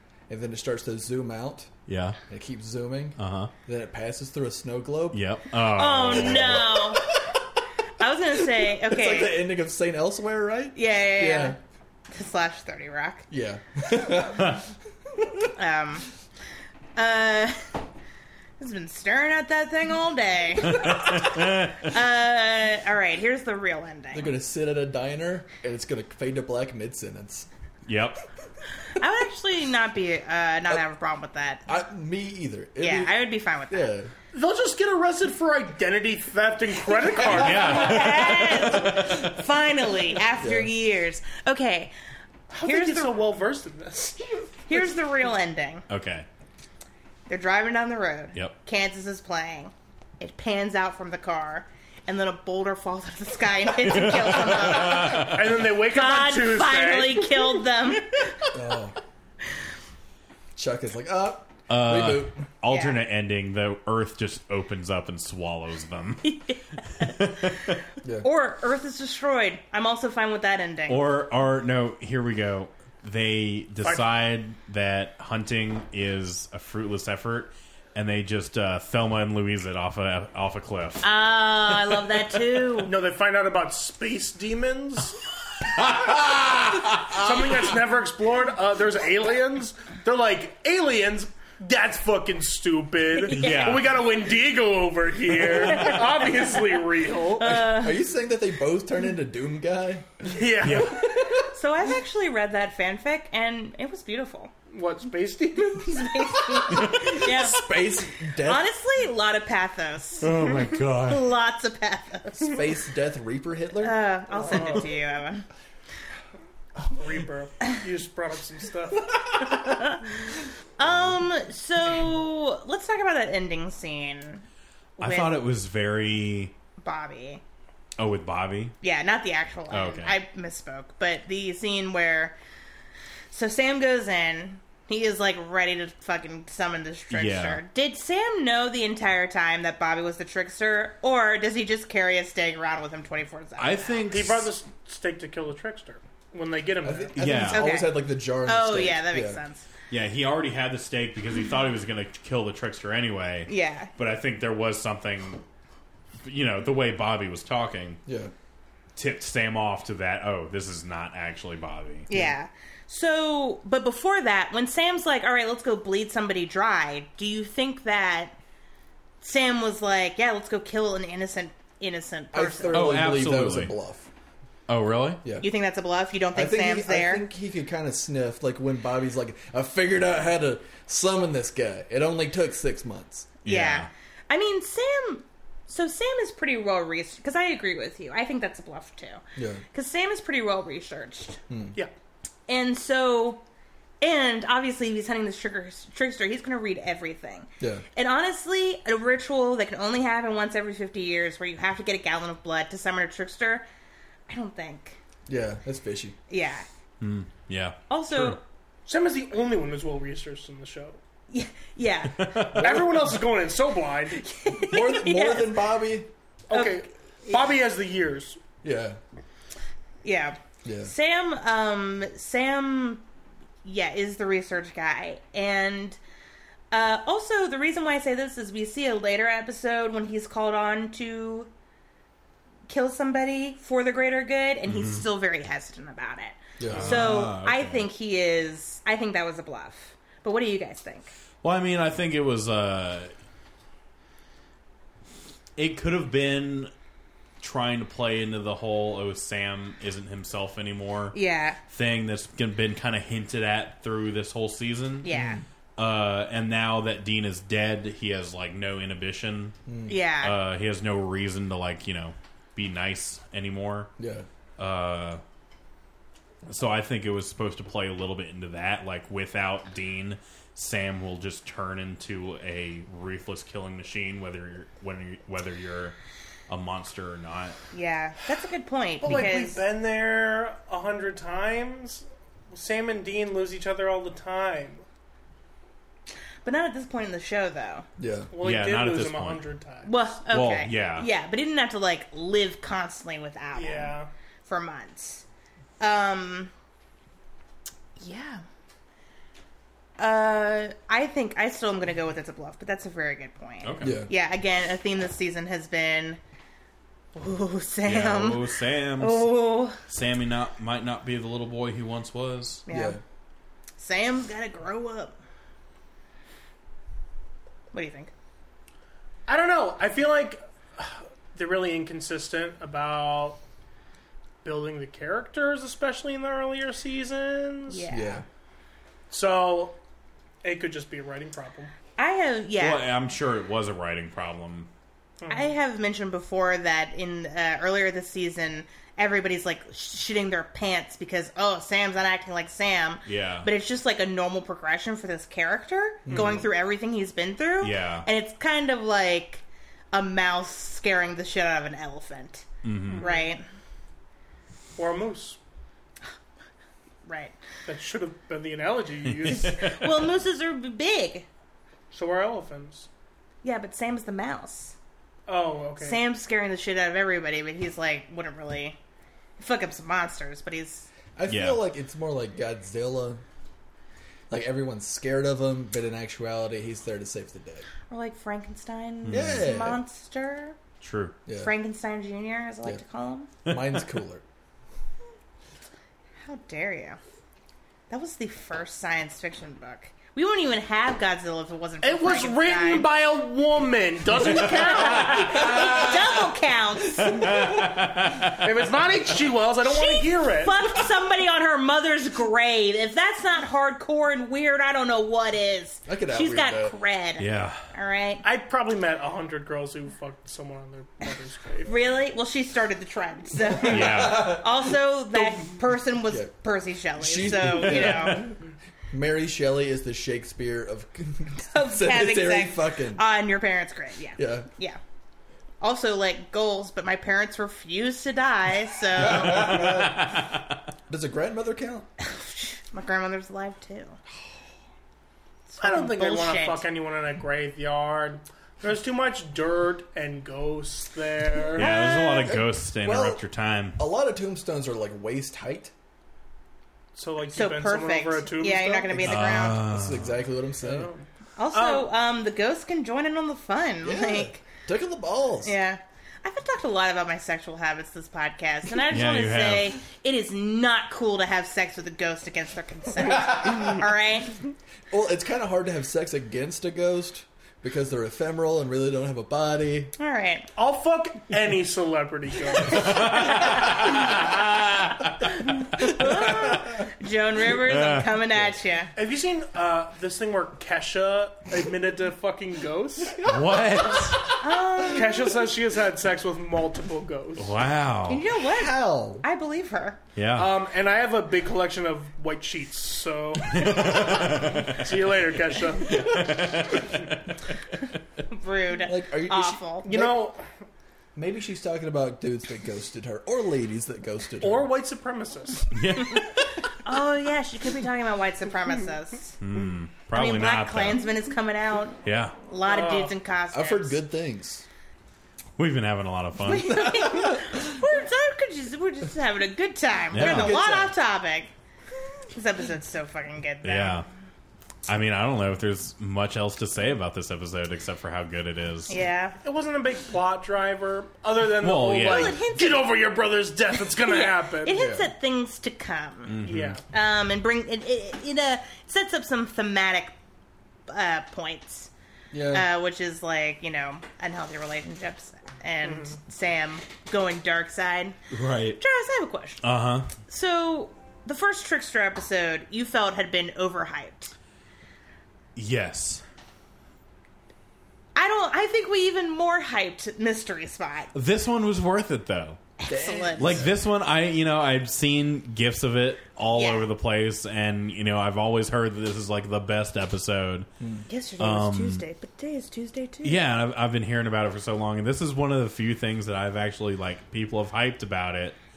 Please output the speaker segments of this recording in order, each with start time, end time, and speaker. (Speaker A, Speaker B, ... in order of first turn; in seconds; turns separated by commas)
Speaker A: 0.3-1.7, Speaker B: 1.9-2.2, Speaker A: 2.3-5.2, Speaker B: 3.2-3.5, Speaker B: 5.1-6.8, Speaker C: 5.7-7.1, Speaker A: 6.2-7.4, Speaker C: 8.0-9.4, Speaker A: 8.4-11.6, Speaker C: 10.8-11.6, Speaker C: 12.1-13.3, Speaker A: 13.3-14.6, Speaker C: 15.5-16.1, Speaker C: 17.0-17.8, Speaker C: 18.6-24.3, Speaker B: 20.6-21.9, Speaker A: 24.1-27.5, Speaker B: 27.9-28.2, Speaker C: 28.9-31.7, Speaker A: 31.7-34.1, Speaker C: 32.8-34.0, Speaker D: 34.3-38.1, Speaker B: 37.3-39.3, Speaker C: 37.3-41.9, Speaker A: 40.4-40.7, Speaker D: 42.5-45.0, Speaker C: 42.6-43.2, Speaker C: 44.7-45.9, Speaker B: 45.9-46.3, Speaker C: 47.3-58.4, Speaker B: 53.8-55.6, Speaker D: 55.1-57.5, Speaker A: 58.5-59.0, Speaker A: 60.6-62.4, Speaker B: 61.7-66.3, Speaker C: 62.7-63.0, Speaker C: 66.2-67.6, Speaker B: 67.0-67.8, Speaker C: 68.2-71.1, Speaker B: 70.9-81.0, Speaker C: 81.0-82.9, Speaker B: 81.7-82.2, Speaker D: 82.8-85.2, Speaker B: 85.6-87.7, Speaker D: 87.1-97.7, Speaker B: 93.2-94.0, Speaker C: 93.3-93.8, Speaker C: 95.7-96.2, Speaker C: 97.4-98.0, Speaker A: 97.4-101.5, Speaker D: 100.3-101.1, Speaker B: 100.6-101.0, Speaker C: 101.5-104.5, Speaker D: 104.7-106.1, Speaker C: 105.6-107.7, Speaker A: 106.5-108.7, Speaker B: 106.9-107.2, Speaker C: 108.4-112.6, Speaker B: 110.2-111.2, Speaker A: 112.4-114.0, Speaker C: 113.8-115.5, Speaker D: 114.3-114.9, Speaker D: 116.9-119.1, Speaker C: 119.5-120.0, Speaker C: 120.8-124.4, Speaker C: 125.0-125.4, Speaker B: 125.0-126.5, Speaker C: 126.8-127.4, Speaker B: 128.0-128.8, Speaker C: 128.8-132.3, Speaker B: 129.7-130.2, Speaker C: 133.3-144.0, Speaker B: 137.1-137.6, Speaker B: 143.6-144.5, Speaker D: 144.1-147.2, Speaker A: 146.8-149.4, Speaker B: 147.2-147.7, Speaker C: 147.5-149.7, Speaker B: 149.9-155.4, Speaker C: 153.5-153.9, Speaker B: 156.2-158.0, Speaker A: 158.1-158.3, Speaker B: 159.0-162.1, Speaker C: 162.1-168.4, Speaker A: 162.1-162.4, Speaker C: 169.2-172.9, Speaker A: 172.3-174.1, Speaker B: 172.7-173.7, Speaker B: 174.7-175.2, Speaker C: 175.4-177.2, Speaker A: 176.3-183.4, Speaker B: 183.4-183.9, Speaker C: 183.4-189.2, Speaker A: 189.4-189.6, Speaker C: 189.7-191.4, Speaker A: 191.5-191.8, Speaker C: 192.5-193.4, Speaker C: 194.0-203.7, Speaker C: 204.3-205.0, Speaker A: 205.3-206.2, Speaker C: 206.3-206.7, Speaker B: 207.0-208.4, Speaker C: 207.9-208.4, Speaker D: 208.9-211.0, Speaker C: 211.3-212.5, Speaker B: 212.2-212.8, Speaker A: 212.5-213.1, Speaker D: 212.6-214.2, Speaker C: 214.2-215.7, Speaker A: 214.6-216.1, Speaker D: 216.5-218.4, Speaker C: 216.5-217.5, Speaker A: 218.6-219.0, Speaker C: 220.0-223.0, Speaker A: 220.6-220.9, Speaker C: 223.6-226.0, Speaker C: 226.7-231.5, Speaker C: 232.7-241.1, Speaker B: 234.7-235.0, Speaker A: 236.6-237.1, Speaker B: 236.7-237.9, Speaker B: 241.4-243.1, Speaker B: 245.6-246.7, Speaker B: 247.4-251.2, Speaker C: 251.1-251.6, Speaker B: 251.7-255.1, Speaker C: 255.0-255.4, Speaker A: 255.1-255.4, Speaker B: 255.8-259.6, Speaker A: 259.7-260.0, Speaker C: 259.9-260.4, Speaker B: 260.2-263.9, Speaker A: 264.0-264.3, Speaker B: 264.6-265.2, Speaker B: 266.5-275.9, Speaker B: 276.5-277.6, Speaker C: 277.7-279.6, Speaker D: 279.0-284.8, Speaker C: 286.4-287.9, Speaker A: 288.0-288.3, Speaker D: 288.3-289.9, Speaker B: 288.4-289.4, Speaker C: 289.9-295.2, Speaker B: 290.3-291.1, Speaker D: 293.6-294.1, Speaker C: 295.8-296.5, Speaker C: 298.0-298.4, Speaker C: 300.0-306.2, Speaker B: 303.6-304.0, Speaker A: 303.8-304.1, Speaker C: 307.1-309.8, Speaker B: 307.9-312.6, Speaker C: 312.7-313.0, Speaker A: 312.7-313.0, Speaker C: 313.8-315.2, Speaker C: 317.7-318.1, Speaker D: 319.3-323.4, Speaker D: 324.4-327.9, Speaker C: 327.7-328.2, Speaker A: 327.9-328.2, Speaker D: 329.1-329.8, Speaker D: 330.4-331.7, Speaker C: 332.0-332.9, Speaker B: 332.6-334.7, Speaker D: 335.2-335.5, Speaker C: 335.3-353.4, Speaker B: 343.1-343.5, Speaker A: 346.1-346.4, Speaker D: 346.1-346.4, Speaker B: 347.6-348.1, Speaker B: 352.6-353.0, Speaker D: 352.9-353.3, Speaker D: 354.8-355.4, Speaker C: 357.1-357.4, Speaker D: 357.7-359.6, Speaker B: 359.1-359.9, Speaker C: 359.3-361.3, Speaker D: 361.9-362.9, Speaker C: 363.4-364.8, Speaker D: 365.3-366.0, Speaker C: 365.8-368.8, Speaker C: 369.4-370.9, Speaker A: 371.2-373.2, Speaker B: 371.3-371.6, Speaker A: 374.3-377.7, Speaker C: 377.9-380.6, Speaker B: 379.1-379.5, Speaker A: 379.1-379.8, Speaker B: 380.8-381.1, Speaker A: 381.3-381.5, Speaker C: 381.4-383.3, Speaker A: 383.5-384.2, Speaker C: 386.2-387.0, Speaker C: 387.9-392.9, Speaker D: 391.8-395.5, Speaker C: 394.2-397.3, Speaker B: 394.7-396.1, Speaker B: 397.0-398.5, Speaker A: 397.2-397.8, Speaker D: 398.4-400.5, Speaker C: 399.6-408.2, Speaker A: 405.9-406.8, Speaker B: 407.2-407.6, Speaker D: 408.2-411.7, Speaker C: 411.7-418.3, Speaker A: 413.6-414.5, Speaker B: 413.6-414.4, Speaker A: 417.0-418.4, Speaker B: 417.8-418.1, Speaker A: 418.9-423.0, Speaker C: 421.4-424.8, Speaker A: 424.2-424.5, Speaker C: 425.6-429.6, Speaker A: 428.9-430.3, Speaker B: 429.1-430.4, Speaker A: 430.9-431.9, Speaker C: 432.0-434.0, Speaker C: 435.5-436.6, Speaker D: 435.6-441.7, Speaker B: 441.6-443.8, Speaker C: 441.6-442.4, Speaker A: 442.2-443.2, Speaker A: 443.8-445.7, Speaker D: 446.9-449.1, Speaker C: 447.3-449.6, Speaker B: 449.0-450.1, Speaker A: 449.1-450.9, Speaker D: 450.6-451.9, Speaker C: 451.4-454.4, Speaker A: 453.8-455.6, Speaker C: 455.4-464.4, Speaker B: 458.9-459.8, Speaker A: 463.3-463.7, Speaker A: 464.9-469.9, Speaker C: 470.0-470.5, Speaker D: 470.6-473.3, Speaker B: 472.7-475.3, Speaker C: 472.7-473.8, Speaker C: 475.5-478.9, Speaker B: 477.6-478.1, Speaker D: 478.9-483.3, Speaker B: 483.2-484.3, Speaker A: 483.3-483.6, Speaker C: 484.4-485.3, Speaker D: 484.8-487.6, Speaker B: 487.4-488.2, Speaker C: 488.1-490.0, Speaker A: 488.3-489.2, Speaker B: 490.2-490.5, Speaker D: 490.4-496.4, Speaker B: 493.5-494.9, Speaker B: 495.9-497.2, Speaker C: 498.3-499.9, Speaker A: 498.9-500.2, Speaker D: 499.9-500.4, Speaker A: 501.1-504.7, Speaker D: 504.4-505.7, Speaker B: 505.7-506.6, Speaker C: 506.8-509.4, Speaker B: 509.4-511.0, Speaker C: 510.1-514.0, Speaker B: 512.0-512.4, Speaker D: 512.7-513.1, Speaker A: 513.5-514.6, Speaker B: 515.6-517.0, Speaker C: 516.5-521.5, Speaker A: 517.0-517.6, Speaker B: 520.1-520.6, Speaker A: 520.2-520.9, Speaker C: 522.3-524.0, Speaker B: 523.6-524.1, Speaker B: 524.9-529.0, Speaker C: 528.9-529.4, Speaker D: 529.4-534.8, Speaker B: 531.6-532.4, Speaker C: 532.0-533.0, Speaker C: 533.8-536.4, Speaker A: 534.8-535.1, Speaker B: 536.3-536.8, Speaker D: 536.5-536.8, Speaker C: 536.9-540.1, Speaker C: 540.9-541.9, Speaker A: 542.3-542.7, Speaker C: 542.5-548.2, Speaker D: 545.8-546.2, Speaker B: 548.3-548.8, Speaker C: 548.8-549.7, Speaker B: 549.6-550.1, Speaker C: 550.2-554.3, Speaker B: 555.6-556.2, Speaker C: 558.1-561.1, Speaker B: 561.1-562.6, Speaker C: 562.8-563.7, Speaker A: 562.9-563.7, Speaker B: 563.4-570.7, Speaker C: 566.5-566.9, Speaker A: 570.8-571.0, Speaker C: 571.1-573.4, Speaker B: 571.4-572.0, Speaker B: 573.2-578.6